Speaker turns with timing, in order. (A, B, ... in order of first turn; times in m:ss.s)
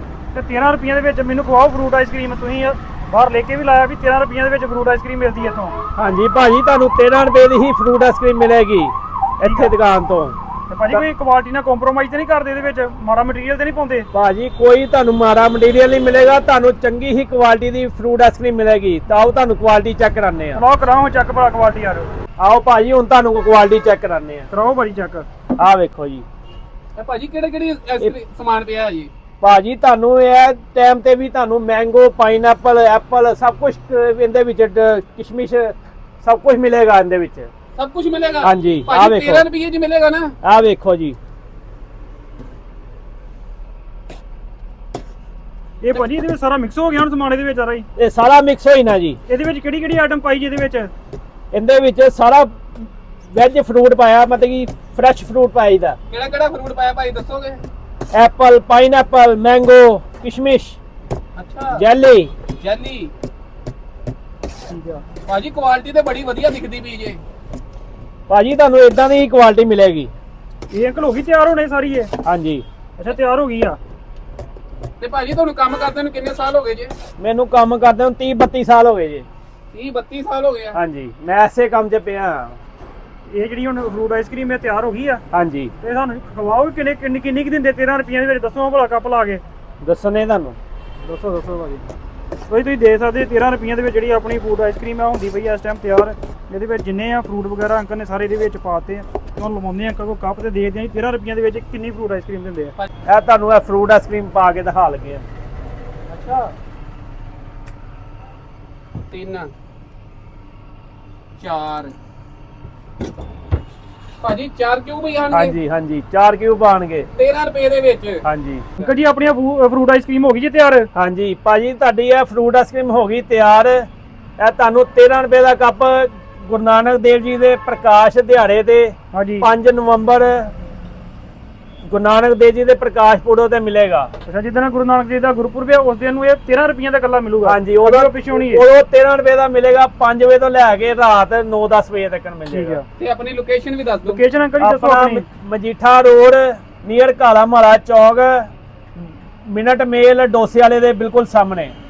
0:00.3-0:05.8 A
0:06.0-0:10.4 B
0:09.4-0:09.7 A
0:10.7-0:14.1 A
0:14.1-0:20.6 B
0:20.5-0:22.1 A
0:22.4-0:24.5 B
0:24.5-0:25.3 A
0:25.6-0:26.2 B
0:27.0-0:29.1 C
0:29.4-0:37.5 B
0:37.8-0:40.3 C
0:38.4-0:39.5 B
0:40.4-0:41.2 B
0:45.8-0:47.9 A
0:48.0-0:49.2 B
0:49.3-0:50.9 A
0:51.5-0:56.0 B
0:56.1-0:57.6 C
0:58.1-1:00.8 B
1:01.4-1:01.8 C
1:01.7-1:02.3 B
1:02.5-1:03.1 C
1:04.7-1:05.0 A
1:05.2-1:07.2 C
1:08.3-1:10.1 B
1:10.7-1:12.1 A
1:12.2-1:12.6 B
1:13.0-1:13.8 A
1:15.0-1:16.9 C
1:17.2-1:19.2 B
1:19.7-1:20.8 C
1:20.7-1:22.6 B
1:23.3-1:25.2 A
1:25.3-1:25.7 B
1:25.8-1:29.4 A
1:29.8-1:30.6 B
1:31.0-1:31.8 A
1:32.5-1:42.7 A
1:43.0-1:45.2 B
1:46.1-1:46.5 C
1:49.1-1:49.5 C
1:51.4-1:51.9 C
1:54.2-1:55.5 C
1:55.3-1:57.1 B
1:57.2-1:58.2 C
1:58.2-1:58.6 B
1:58.8-2:00.9 A
2:00.9-2:03.9 B
2:04.4-2:10.5 B
2:09.1-2:09.5 A
2:11.8-2:14.1 B
2:14.2-2:18.6 A
2:17.4-2:22.8 B
2:22.5-2:22.8 A
2:23.0-2:24.2 C
2:24.0-2:25.2 A
2:24.6-2:28.5 B
2:29.4-2:31.7 B